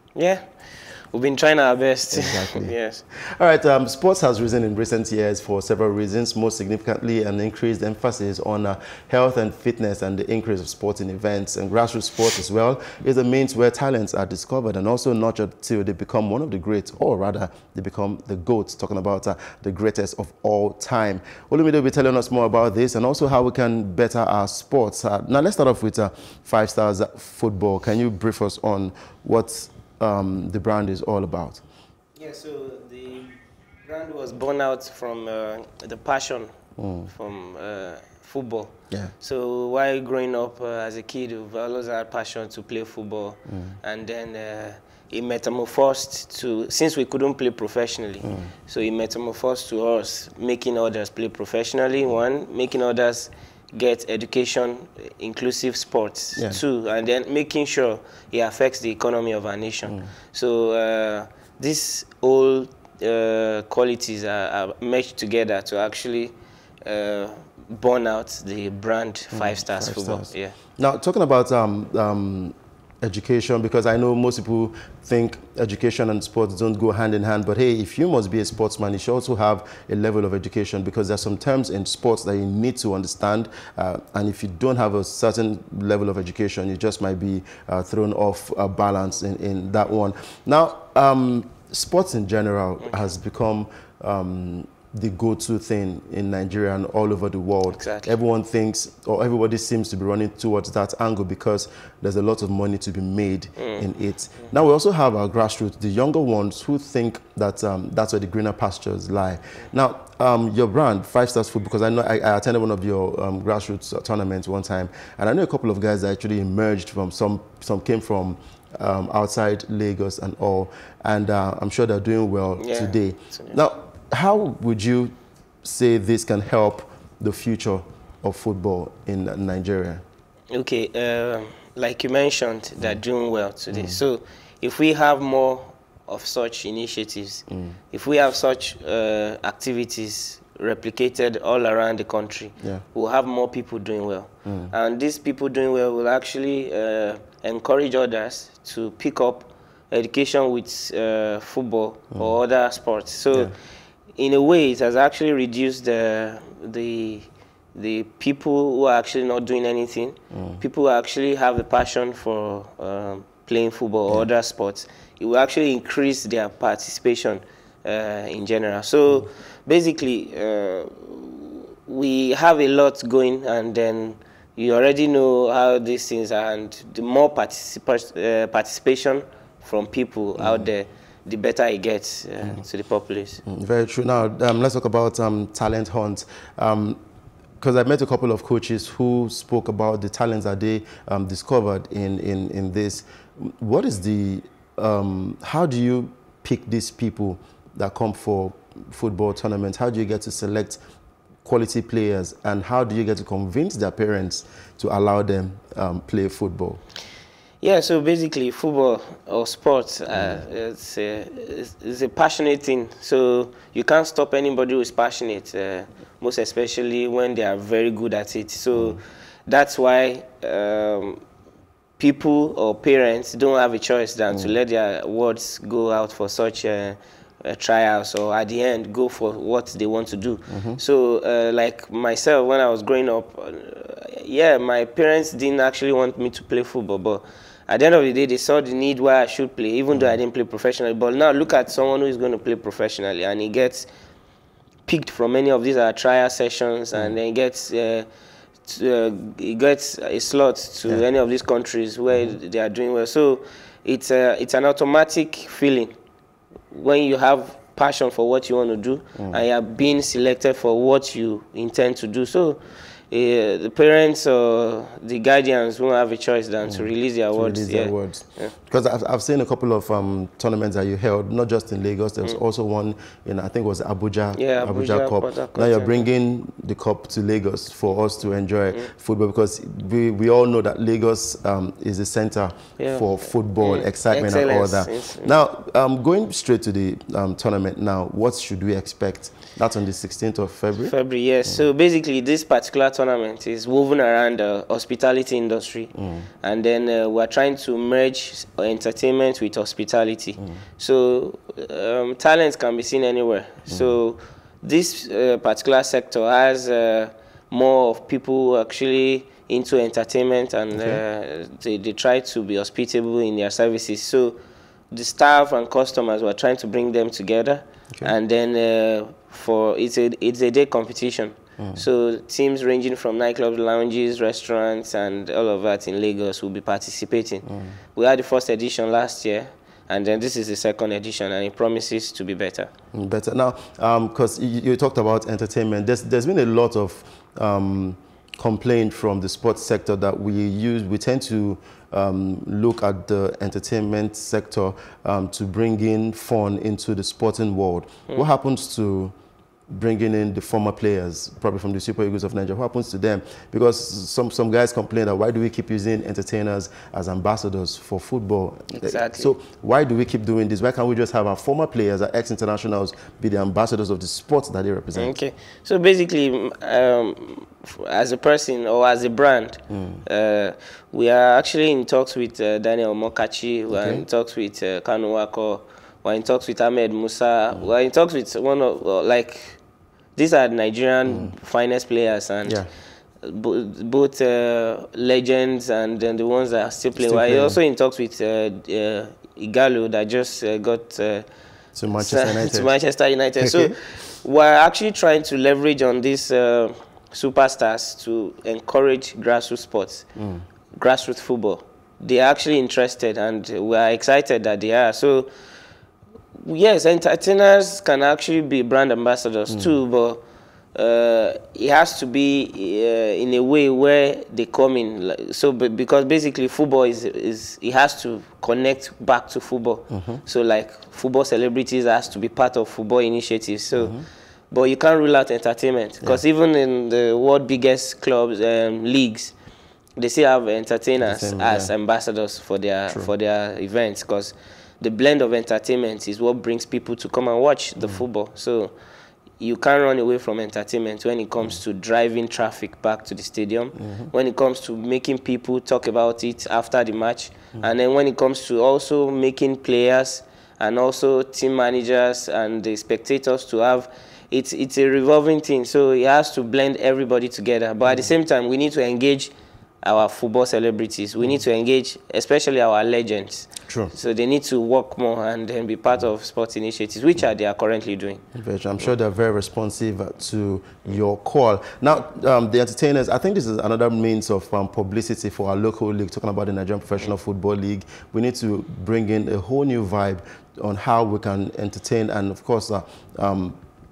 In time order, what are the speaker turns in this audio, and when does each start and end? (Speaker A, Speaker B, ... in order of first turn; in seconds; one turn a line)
Speaker A: 0.1-0.5
Speaker A: 1.1-3.0
Speaker B: 2.1-31.6
Speaker A: 32.2-33.3
Speaker A: 33.9-36.5
Speaker B: 36.8-37.1
Speaker A: 37.1-70.5
Speaker B: 43.5-43.8
Speaker B: 48.2-48.5
Speaker B: 56.3-56.6
Speaker B: 69.3-125.1
Speaker A: 97.7-98.1
Speaker A: 103.6-103.8
Speaker A: 122.6-123.6
Speaker B: 125.6-130.0
Speaker A: 130.5-153.5
Speaker B: 133.7-134.0
Speaker B: 137.5-137.8
Speaker B: 144.4-144.7
Speaker A: 154.2-183.4
Speaker B: 160.3-160.6
Speaker B: 180.4-180.7
Speaker B: 183.4-187.0
Speaker B: 187.6-200.8
Speaker B: 201.4-206.8
Speaker A: 207.6-221.2
Speaker B: 210.1-210.4
Speaker A: 222.0-243.9
Speaker B: 230.5-230.8
Speaker A: 244.9-248.1
Speaker A: 248.7-255.9
Speaker A: 256.7-268.5
Speaker B: 259.1-259.4
Speaker B: 266.6-290.9
Speaker A: 274.3-276.0
Speaker A: 282.8-285.3
Speaker A: 290.8-314.4
Speaker B: 295.9-296.3
Speaker B: 310.7-311.0
Speaker A: 314.9-332.7
Speaker B: 321.6-321.8
Speaker B: 327.4-327.8
Speaker B: 332.9-349.1
Speaker B: 349.7-365.1
Speaker A: 358.7-359.3
Speaker A: 364.9-379.6
Speaker B: 369.7-370.0
Speaker B: 373.7-374.0
Speaker A: 380.1-382.6
Speaker B: 381.1-381.3
Speaker A: 383.2-391.3
Speaker B: 386.9-387.6
Speaker B: 391.7-392.7
Speaker A: 392.0-400.1
Speaker B: 393.4-393.8
Speaker B: 400.1-400.4
Speaker A: 400.7-405.3
Speaker A: 406.4-410.2
Speaker A: 410.7-424.0
Speaker B: 419.9-420.2
Speaker B: 423.8-424.1
Speaker A: 424.5-429.3
Speaker A: 430.0-438.7
Speaker B: 431.0-431.7
Speaker A: 439.4-468.2
Speaker B: 443.8-444.1
Speaker B: 463.7-463.9
Speaker B: 468.3-483.6